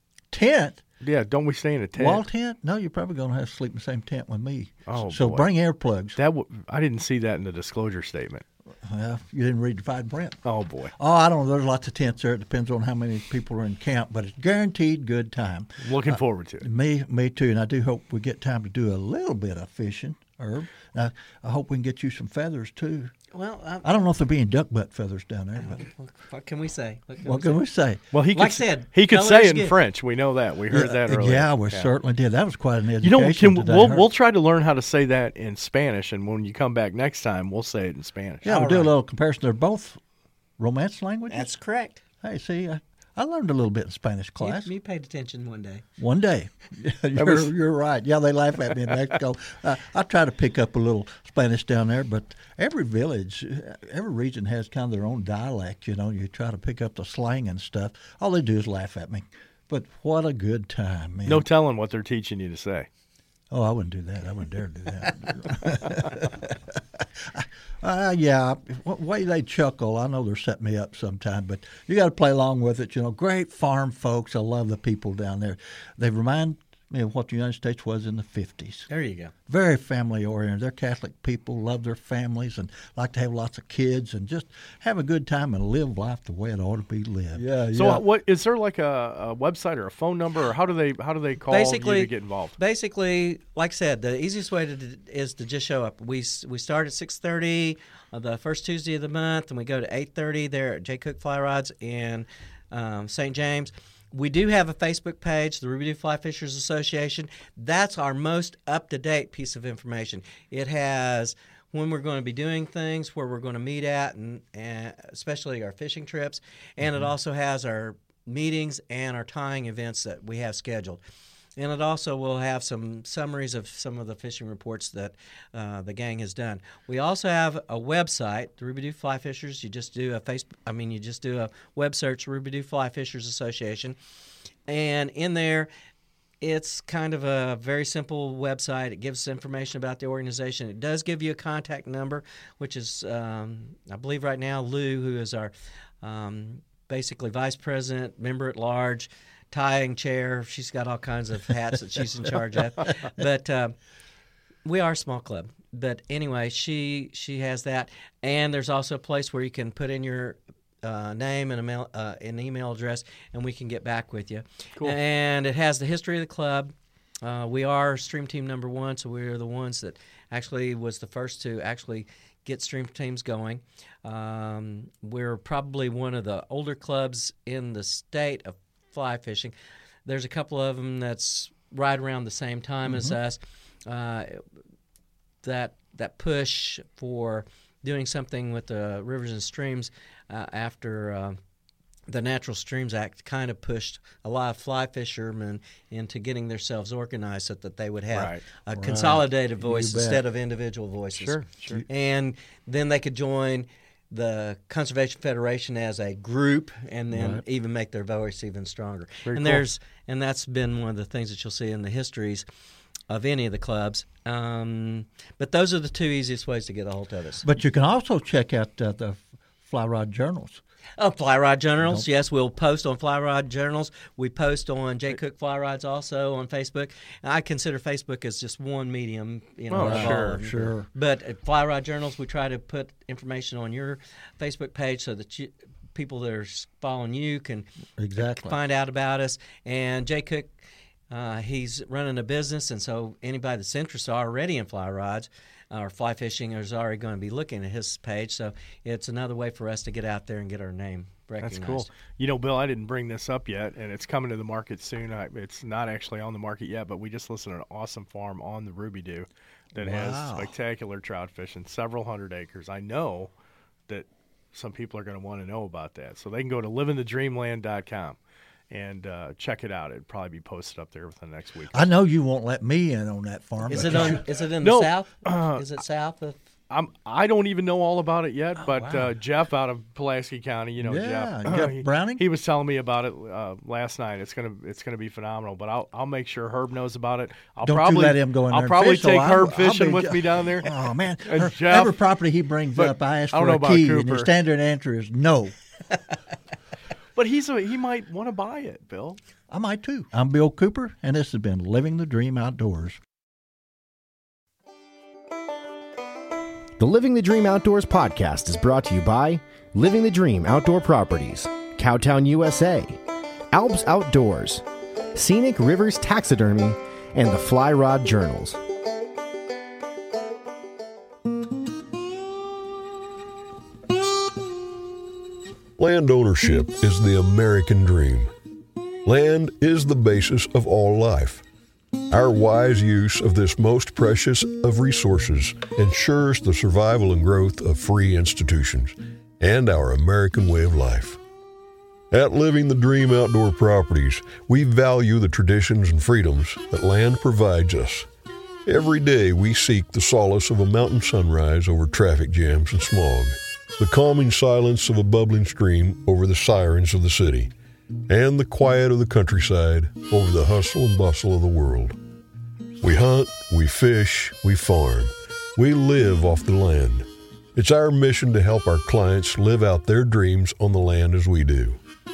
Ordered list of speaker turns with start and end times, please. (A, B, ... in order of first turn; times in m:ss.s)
0:00.3-0:00.8 A
0:01.0-0:02.2 B
0:02.0-0:06.2 A
0:04.9-0:05.5 B
0:06.2-0:08.4 B
0:08.8-0:10.4 A
0:10.4-0:10.9 B
0:11.0-0:23.1 A
0:15.8-0:16.7 B
0:23.3-0:24.0 C
0:23.8-0:25.8 A
0:25.6-0:27.6 C
0:27.2-0:28.0 A
0:28.1-0:31.9 B
0:28.3-0:29.8 C
0:30.7-0:34.1 A
0:33.0-0:38.6 B
0:38.4-0:40.0 A
0:38.5-0:38.9 C
0:40.6-0:41.5 A
0:41.3-0:42.0 C
0:42.2-0:44.7 A
0:44.4-0:45.8 C
0:46.0-1:01.5 A
0:47.2-0:47.5 B
1:01.3-1:02.9 B
1:03.5-1:18.9 A
1:18.9-1:19.3 C
1:19.5-1:28.0 A
1:27.4-1:32.6 B
1:31.5-2:01.0 C
1:56.8-1:57.1 A
2:01.6-2:14.0 C
2:14.7-2:15.7 C
2:16.4-2:33.7 C
2:34.6-2:59.5 C
3:00.0-3:04.4 C
3:02.9-3:03.2 A
3:05.4-3:11.4 C
3:12.1-3:32.4 C
3:18.1-3:19.0 B
3:18.7-3:20.2 A
3:21.1-3:21.8 B
3:27.1-3:27.4 A
3:29.2-3:29.6 B
3:33.1-3:37.4 C
3:37.4-3:40.6 A
3:41.0-4:00.5 C
3:41.8-3:42.1 A
3:49.7-3:50.4 B
3:49.8-3:50.9 A
3:58.0-3:58.6 A
4:01.1-4:11.9 C
4:11.4-4:23.3 B
4:19.8-4:20.5 A
4:23.9-4:28.2 B
4:28.7-4:31.9 B
4:31.7-4:34.2 A
4:33.7-4:36.4 C
4:33.7-4:35.6 B
4:36.7-4:50.7 B
4:38.6-4:39.1 A
4:40.8-4:42.2 A
4:47.6-4:55.6 A
4:51.3-4:52.0 B
4:52.8-4:54.3 B
4:57.2-4:59.2 B
4:59.5-5:03.0 A
5:06.8-5:13.0 D
5:13.5-5:18.6 D
5:25.8-5:28.3 E
5:29.0-5:31.4 E
5:32.1-5:41.2 E
5:42.1-5:48.1 E
5:48.7-5:57.5 E
5:58.1-6:02.0 E
6:02.8-6:11.8 E